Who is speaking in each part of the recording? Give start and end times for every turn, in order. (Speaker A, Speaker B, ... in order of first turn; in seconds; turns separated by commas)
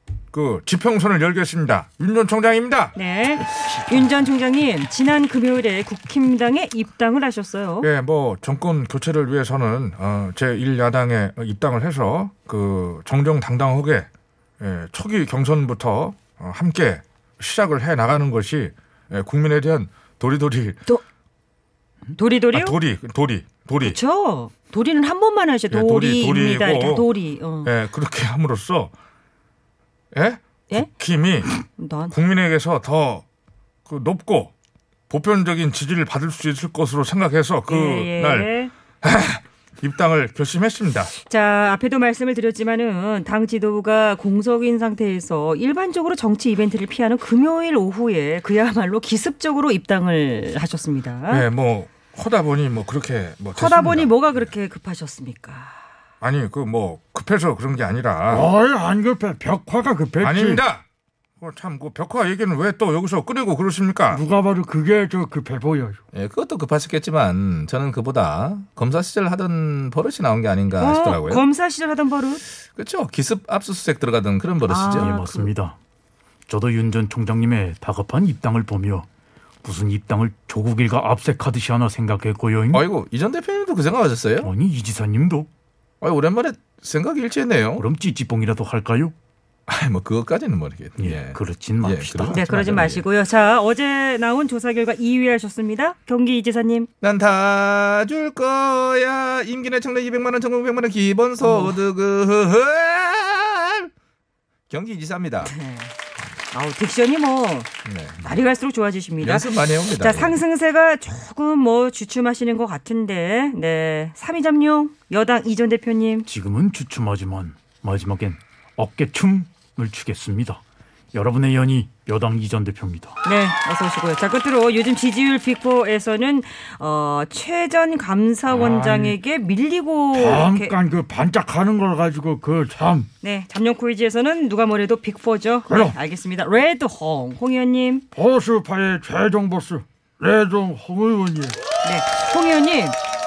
Speaker A: 0.3-3.0, Speaker B: 3.0-7.9, Speaker A: 7.8-14.1, Speaker A: 14.6-20.8, Speaker B: 22.1-22.8, Speaker A: 22.5-24.0, Speaker B: 23.8-27.7, Speaker A: 25.7-27.1, Speaker A: 27.6-28.9, Speaker A: 30.1-31.5, Speaker B: 31.6-32.1, Speaker A: 32.1-33.2, Speaker A: 33.9-34.5, Speaker A: 35.1-41.1, Speaker B: 37.7-38.7, Speaker B: 41.1-51.5, Speaker A: 51.3-54.5, Speaker B: 53.5-55.8, Speaker A: 56.2-58.5, Speaker C: 58.3-60.6, Speaker A: 60.2-60.8, Speaker A: 61.4-64.2, Speaker C: 64.1-66.0, Speaker D: 66.1-71.4, Speaker B: 70.8-72.4, Speaker D: 72.8-75.1, Speaker B: 74.7-75.5, Speaker E: 74.9-75.8, Speaker E: 76.5-79.1, Speaker E: 79.6-82.8, Speaker D: 82.7-84.5, Speaker E: 84.4-85.5, Speaker D: 86.0-87.8, Speaker E: 87.8-89.1, Speaker D: 89.7-93.0, Speaker E: 91.0-92.4, Speaker B: 92.3-96.9, Speaker D: 97.0-103.9, Speaker B: 101.4-101.8, Speaker D: 104.7-105.5, Speaker B: 105.4-106.0, Speaker B: 106.5-107.7, Speaker D: 107.9-108.2, Speaker B: 108.2-116.3, Speaker D: 109.2-110.4, Speaker E: 116.3-120.6, Speaker E: 121.1-123.1, Speaker B: 123.2-130.7, Speaker C: 128.5-129.2, Speaker C: 130.1-133.1, Speaker B: 133.2-138.1, Speaker C: 135.7-136.0, Speaker C: 138.1-141.6, Speaker B: 141.8-143.0